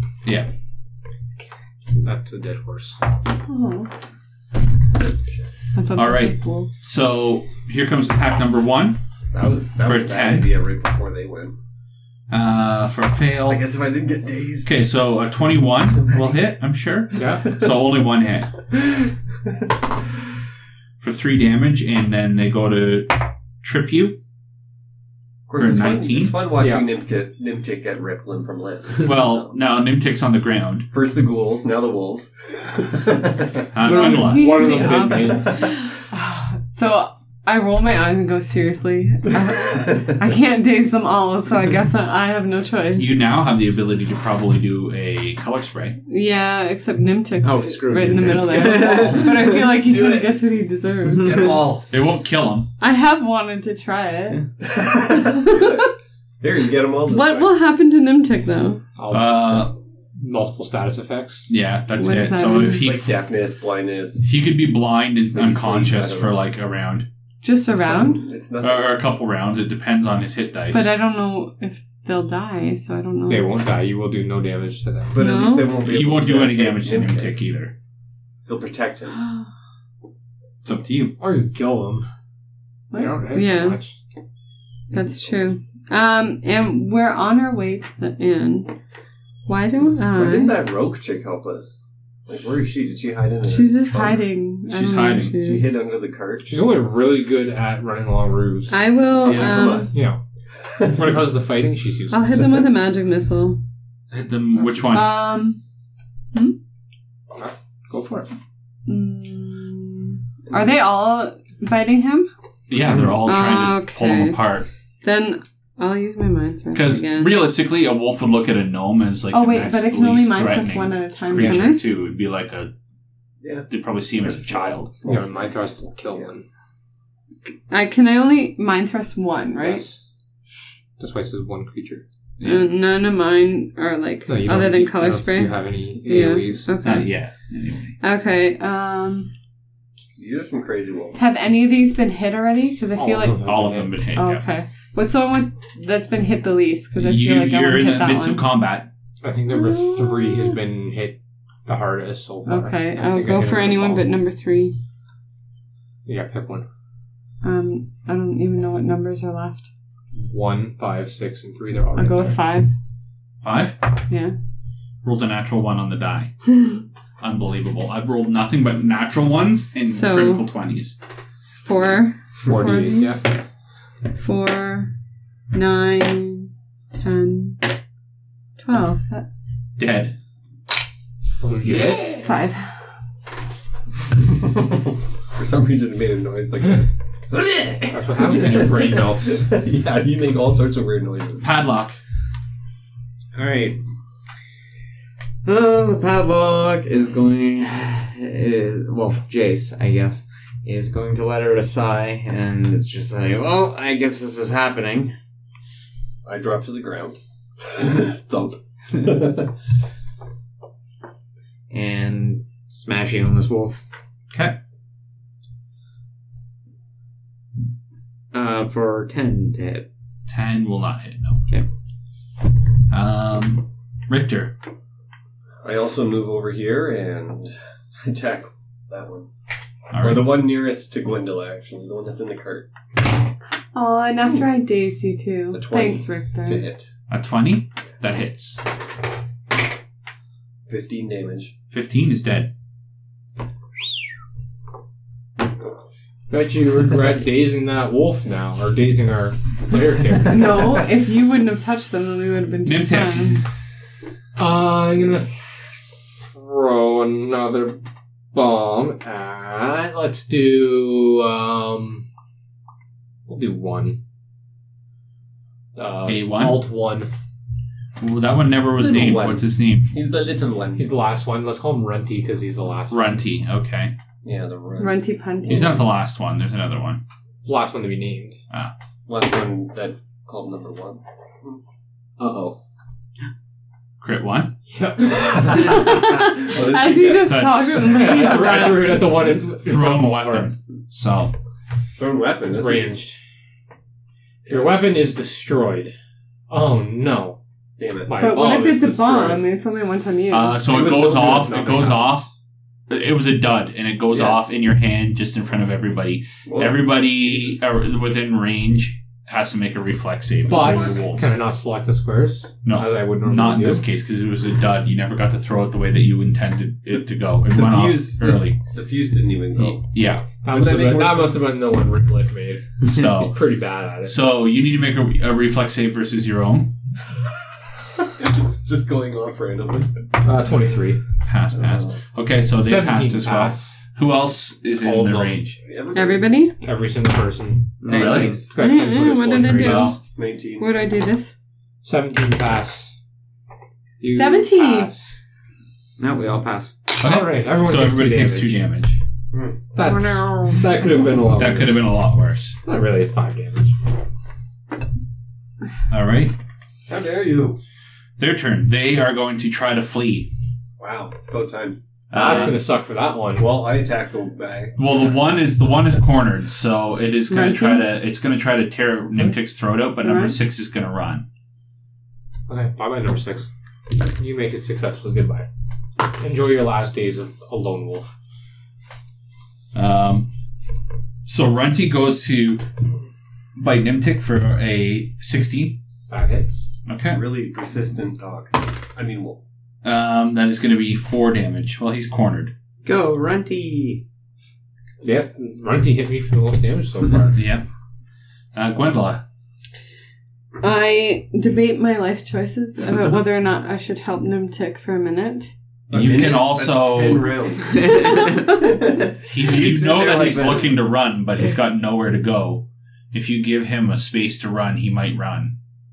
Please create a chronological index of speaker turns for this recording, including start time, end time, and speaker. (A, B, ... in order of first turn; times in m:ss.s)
0:00.2-0:00.6 A
0:01.9-0:03.0 B
0:03.4-0:03.9 C
0:05.7-0:06.7 C
0:05.9-0:09.0 A
0:09.3-0:11.5 D
0:09.8-0:10.5 A
0:12.3-0:13.6 A
0:13.5-0:14.7 D
0:14.6-0:18.5 A
0:16.0-0:16.3 D
0:17.1-0:17.5 B
0:21.0-0:24.2 A
0:25.5-0:29.5 D
0:25.5-0:26.4 A
0:26.6-0:26.9 B
0:29.0-0:30.9 A
0:30.9-0:33.7 D
0:33.7-0:35.0 A
0:33.8-0:35.6 B
0:33.8-0:43.2 C
0:39.6-0:40.1 D
0:43.0-0:46.0 A
0:46.1-0:51.6 C
0:47.4-0:49.6 E
0:48.3-0:48.9 A
0:48.6-0:50.3 D
0:51.2-0:51.9 D
0:51.9-0:52.7 A
0:52.8-0:54.4 C
0:54.6-0:57.5 D
0:55.0-0:55.9 C
0:57.1-0:58.8 C
0:59.0-1:01.5 B
0:59.1-0:59.7 A
1:01.5-1:03.1 A
1:02.0-1:02.8 C
1:02.8-1:04.3 D
1:04.2-1:07.0 A
1:05.3-1:06.3 D
1:07.4-1:08.2 C
1:07.7-1:08.9 D
1:08.6-1:10.9 A
1:10.7-1:13.5 C
1:13.2-1:15.2 B
1:15.1-1:17.3 D
1:15.1-1:15.8 C
1:15.8-1:17.7 A
1:18.4-1:19.2 D
1:19.1-1:19.5 C
1:20.6-1:21.1 A
1:21.2-1:22.1 B
1:22.9-1:23.8 C
1:22.9-1:24.0 B
1:24.9-1:28.7 C
1:29.4-1:30.6 C
1:30.1-1:34.3 D
1:33.4-1:35.7 C
1:34.7-1:35.4 A
1:35.4-1:36.6 D
1:36.5-1:38.8 B
1:38.7-1:39.9 C
1:39.2-1:40.0 D
1:39.9-1:40.2 B
1:40.6-1:41.2 D
1:40.8-1:42.5 B
1:42.1-1:43.6 C
1:44.1-1:45.2 A
1:44.5-1:44.9 B
1:44.9-1:45.6 C
1:47.3-1:48.3 B
1:48.9-1:52.3 C
1:52.7-1:54.7 A
1:53.2-1:54.4 C
1:55.0-1:57.4 C
1:56.7-2:02.7 A
1:59.3-2:01.8 C
2:03.4-2:06.3 D
2:03.7-2:04.9 A
2:05.0-2:06.4 B
2:07.5-2:09.8 C
2:09.6-2:10.0 B
2:11.0-2:12.0 B
2:12.4-2:12.7 A
2:12.4-2:17.1 C
2:14.3-2:16.8 B
2:16.8-2:18.0 A
2:18.0-2:19.3 C
2:20.2-2:21.2 D
2:21.1-2:23.5 C
2:22.9-2:24.0 B
2:23.4-2:24.4 A
2:24.1-2:28.4 C
2:26.9-2:28.9 A
2:29.2-2:34.1 B
2:29.5-2:30.6 C
2:32.4-2:34.8 C
2:36.0-2:36.6 B
2:37.4-2:39.7 C
2:40.1-2:42.4 B
2:41.9-2:42.7 C
2:43.4-2:43.8 A
2:44.1-2:44.3 C
2:45.0-2:46.4 A
2:47.2-2:51.0 A
2:49.8-2:50.4 C
2:51.6-2:53.2 C
2:52.3-2:53.2 B
2:54.1-2:54.9 C
2:55.5-2:57.6 C
2:58.6-2:59.3 C
2:59.8-3:00.2 A
3:01.4-3:02.2 B
3:02.0-3:02.8 C
3:04.4-3:11.6 D
3:07.9-3:09.5 B
3:08.3-3:08.8 A
3:11.4-3:12.0 A
3:13.3-3:13.8 E
3:15.4-3:25.1 E
3:26.2-3:29.5 D
3:31.7-3:33.8 E
3:38.3-3:39.9 E
3:40.3-3:41.4 A
3:42.9-3:44.5 A
3:45.6-3:49.3 D
3:49.9-3:50.4 A
3:50.0-3:52.7 D
3:53.7-3:56.6 C
3:55.5-3:56.9 D
3:57.1-3:58.6 A
4:00.7-4:01.5 D
4:01.7-4:02.5 A
4:06.3-4:10.8 B
4:10.3-4:13.4 C
4:12.6-4:13.4 A
4:14.4-4:17.8 B
4:18.3-4:22.0 B
4:23.3-4:24.0 B
4:25.7-4:27.1 B
4:26.0-4:26.6 A
4:28.0-4:29.9 A
4:28.8-4:30.9 D
4:30.7-4:33.2 B
4:32.9-4:33.9 A
4:34.2-4:35.8 D
4:34.8-4:35.8 C
4:35.5-4:37.0 A
4:37.4-4:38.4 B
4:39.1-4:41.6 D
4:42.2-4:42.6 B
4:44.0-4:44.5 A
4:44.7-4:46.0 B
4:45.5-4:49.0 C
4:45.5-4:47.5 D
4:47.1-4:51.3 A
4:47.8-4:50.5 B
4:48.1-4:48.7 D
4:52.0-4:53.0 D
4:52.5-4:53.2 B
4:54.5-4:54.7 D
4:54.5-4:55.9 B
4:56.5-4:57.4 B
4:57.8-4:58.2 D
4:58.0-4:59.4 B
4:58.1-5:00.6 C
5:00.3-5:02.3 A
5:00.6-5:02.0 D
5:01.5-5:02.2 B
5:02.9-5:11.2 A
5:06.4-5:07.6 D
5:10.5-5:13.9 B
5:10.6-5:11.1 D
5:12.6-5:18.6 A
5:17.4-5:19.9 D
5:19.6-5:20.2 A
5:20.3-5:24.2 B
5:20.5-5:21.5 D
5:22.8-5:23.4 A
5:24.0-5:26.7 A
5:28.1-5:30.0 D
5:30.2-5:31.0 B
5:31.2-5:35.6 A
5:31.5-5:32.0 D
5:32.5-5:33.8 B
5:34.7-5:35.5 B
5:35.6-5:36.3 D
5:35.9-5:36.6 C
5:36.6-5:40.0 B
5:37.8-5:38.3 E
5:37.9-5:38.4 A
5:37.9-5:38.5 D
5:38.6-5:40.0 C
5:39.6-5:39.9 A
5:40.0-5:40.7 D
5:40.6-5:41.4 C
5:41.8-5:42.9 B
5:44.0-5:45.2 B
5:44.1-5:44.9 C
5:46.0-5:46.7 E
5:47.0-5:48.6 B
5:47.0-5:49.0 A
5:49.3-5:49.7 D
5:49.7-5:51.9 B
5:49.8-5:50.6 C
5:51.4-5:52.6 A
5:52.6-5:53.7 B
5:55.9-5:56.3 A
5:56.9-5:57.6 D
5:58.2-6:00.3 A
6:00.8-6:02.5 D
6:02.1-6:02.6 A
6:02.1-6:03.6 B
6:03.3-6:04.8 D
6:04.8-6:11.2 A
6:07.3-6:07.9 C
6:10.0-6:10.4 C
6:12.5-6:15.5 B
6:16.0-6:18.1 B
6:19.7-6:20.3 A
6:21.2-6:22.6 A
6:23.6-6:25.8 A
6:26.1-6:26.8 B
6:26.8-6:27.2 A
6:27.0-6:29.4 D
6:29.8-6:32.5 A
6:32.8-6:34.0 E
6:35.0-6:37.4 B
6:37.3-6:37.6 A
6:38.5-6:39.2 A
6:40.6-6:45.5 C
6:45.9-6:50.8 D
6:45.9-6:47.4 A
6:47.8-6:48.4 E
6:48.0-6:48.5 C
6:49.2-6:55.5 A